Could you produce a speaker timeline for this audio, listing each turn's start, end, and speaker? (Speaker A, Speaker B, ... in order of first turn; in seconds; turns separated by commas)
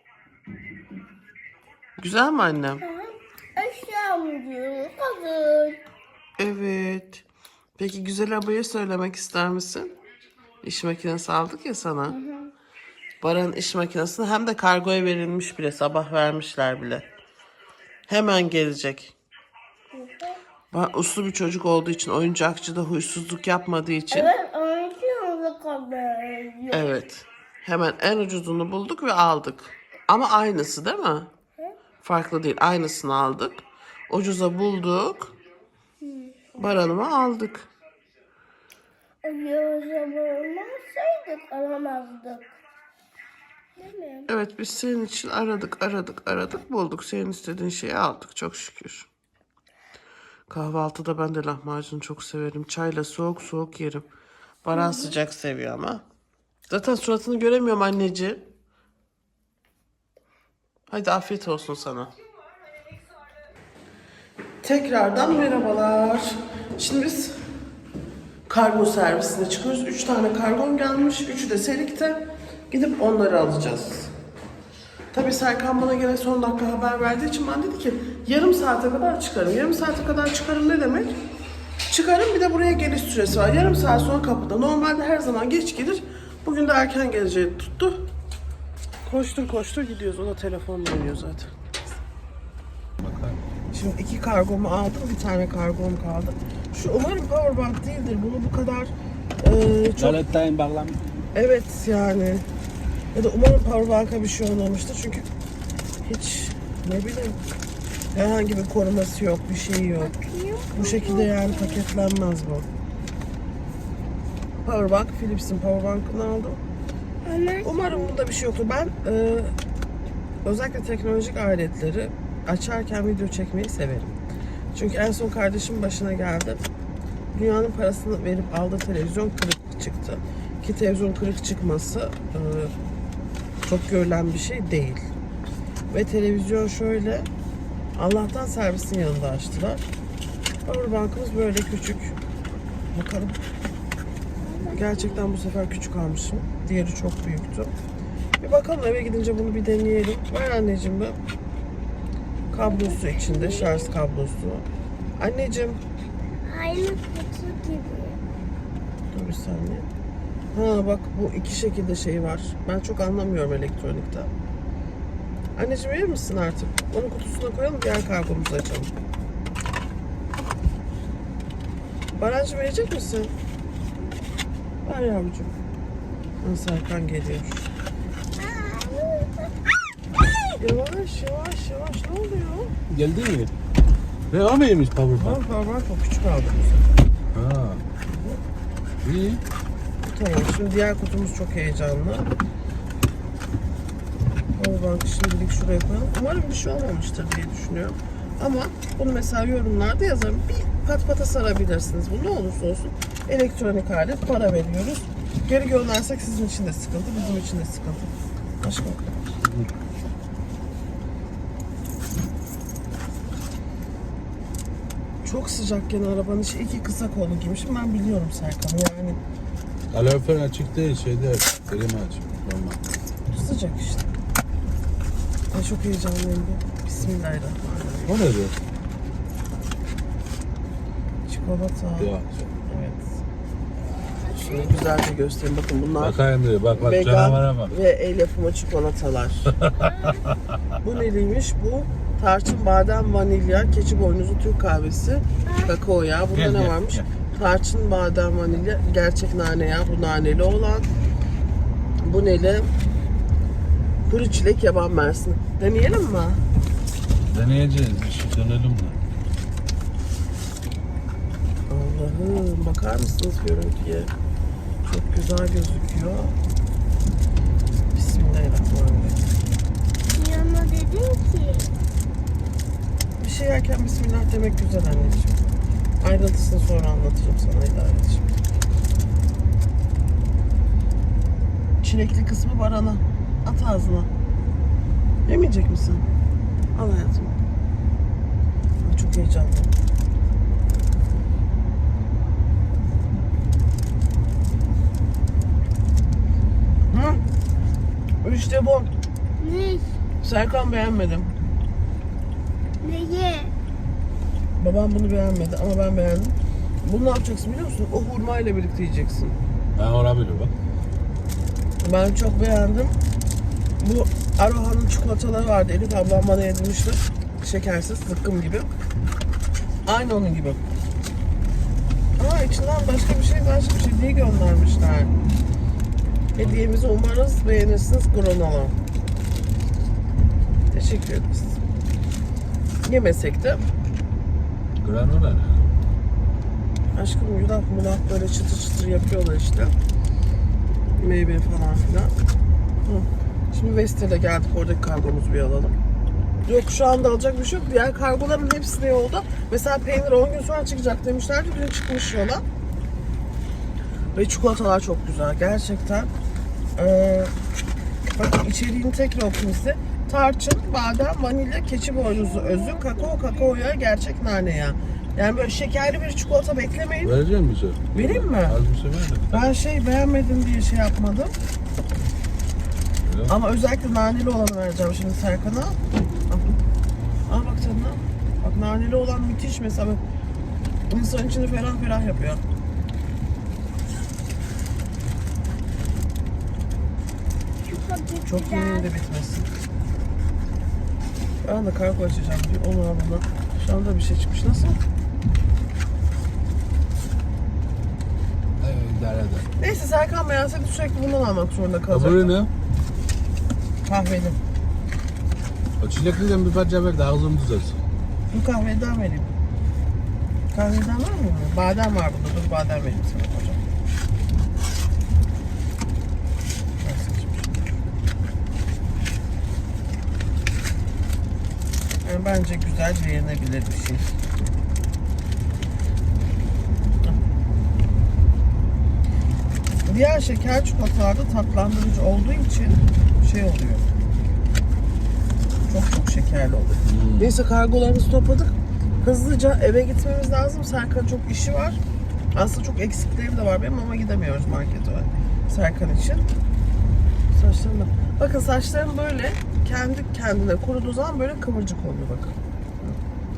Speaker A: 2.0-2.8, Speaker B: 2.8-5.8, Speaker A: 6.4-7.2, Speaker A: 7.8-9.9, Speaker A: 10.6-12.2, Speaker B: 12.1-12.5, Speaker A: 13.2-17.1, Speaker A: 18.1-19.1, Speaker B: 19.9-20.4, Speaker A: 20.7-24.3, Speaker B: 24.1-26.9, Speaker A: 26.7-31.3, Speaker A: 32.0-35.4, Speaker B: 36.0-36.4, Speaker A: 36.5-37.7, Speaker B: 39.2-42.5, Speaker B: 43.8-44.3, Speaker A: 44.3-49.1, Speaker A: 50.5-54.0, Speaker A: 54.6-56.0, Speaker B: 54.7-55.1, Speaker A: 56.7-58.4, Speaker A: 60.9-62.1, Speaker A: 64.6-67.4, Speaker A: 68.5-74.1, Speaker A: 75.1-81.1, Speaker A: 81.9-88.0, Speaker A: 89.0-91.5, Speaker C: 93.0-93.4, Speaker A: 93.7-100.2, Speaker C: 100.0-101.2, Speaker A: 101.3-102.5, Speaker A: 103.1-105.3, Speaker A: 106.0-107.4, Speaker A: 108.1-110.1, Speaker B: 110.0-111.8, Speaker A: 110.7-112.7, Speaker A: 114.6-116.6, Speaker B: 117.2-118.2, Speaker A: 117.6-119.5, Speaker A: 120.4-124.2, Speaker A: 124.7-126.6, Speaker A: 127.3-132.8, Speaker A: 133.6-135.1, Speaker A: 135.9-137.3, Speaker A: 137.9-139.8, Speaker A: 140.7-142.2, Speaker A: 142.9-143.4, Speaker B: 144.4-145.2, Speaker A: 144.7-147.7, Speaker A: 148.4-151.2, Speaker A: 152.5-154.7, Speaker B: 152.6-153.9, Speaker A: 155.2-155.8, Speaker B: 156.4-158.2, Speaker A: 159.1-159.9, Speaker A: 160.5-164.3, Speaker A: 165.6-168.9, Speaker A: 172.1-173.3, Speaker A: 174.8-175.6, Speaker A: 176.4-177.7, Speaker B: 178.4-179.5, Speaker A: 180.6-182.7, Speaker C: 182.9-183.5, Speaker C: 184.3-185.4, Speaker A: 185.1-186.9, Speaker C: 187.3-187.8, Speaker C: 189.0-189.4, Speaker A: 190.0-192.3, Speaker A: 194.6-209.2, Speaker C: 209.4-209.7, Speaker A: 215.2-219.2, Speaker C: 219.9-222.8, Speaker A: 223.3-224.1, Speaker A: 225.5-228.2, Speaker C: 228.1-228.5, Speaker A: 231.3-232.1, Speaker C: 232.0-232.5, Speaker A: 232.7-233.2, Speaker A: 234.3-236.2, Speaker C: 236.0-237.7, Speaker A: 236.8-239.6, Speaker C: 239.6-240.4, Speaker A: 240.8-250.9, Speaker B: 245.4-245.7, Speaker C: 246.3-247.1, Speaker A: 252.0-252.7, Speaker A: 254.1-256.4, Speaker C: 257.3-259.0, Speaker A: 261.7-264.1, Speaker A: 264.9-266.4, Speaker A: 267.9-269.2, Speaker B: 270.1-271.7, Speaker A: 273.2-275.4, Speaker A: 276.0-278.3, Speaker A: 281.8-284.1, Speaker A: 285.2-286.1, Speaker A: 286.7-287.3, Speaker A: 288.8-289.7, Speaker A: 296.9-297.2, Speaker A: 298.2-298.9, Speaker B: 299.4-299.9, Speaker A: 300.2-301.3, Speaker B: 302.8-303.5, Speaker A: 304.6-309.4, Speaker C: 309.8-310.5, Speaker A: 311.8-312.9, Speaker A: 313.8-318.7, Speaker A: 319.9-320.6, Speaker A: 322.2-325.1, Speaker A: 326.4-328.8, Speaker A: 330.7-331.6, Speaker A: 332.8-333.6, Speaker C: 334.8-335.7, Speaker A: 336.9-339.7, Speaker A: 340.9-342.1, Speaker A: 342.9-345.8, Speaker A: 346.4-352.4, Speaker A: 354.1-356.1, Speaker A: 356.8-357.3, Speaker A: 358.1-367.1, Speaker B: 362.0-363.5, Speaker C: 367.0-369.5, Speaker A: 367.9-368.6, Speaker A: 369.3-371.3, Speaker C: 373.0-373.3, Speaker A: 373.3-376.6, Speaker A: 377.3-380.0, Speaker A: 380.9-382.4, Speaker B: 387.6-388.9, Speaker A: 388.2-389.5, Speaker A: 391.4-394.8, Speaker C: 398.6-399.4, Speaker A: 399.6-402.3, Speaker C: 401.9-402.5, Speaker A: 403.9-404.4, Speaker C: 405.8-407.8, Speaker A: 408.3-409.4, Speaker A: 410.5-413.6, Speaker A: 416.8-417.6, Speaker A: 422.0-424.1, Speaker A: 429.8-433.9, Speaker A: 435.7-441.8, Speaker C: 436.9-437.3, Speaker A: 442.3-446.3, Speaker A: 447.3-453.0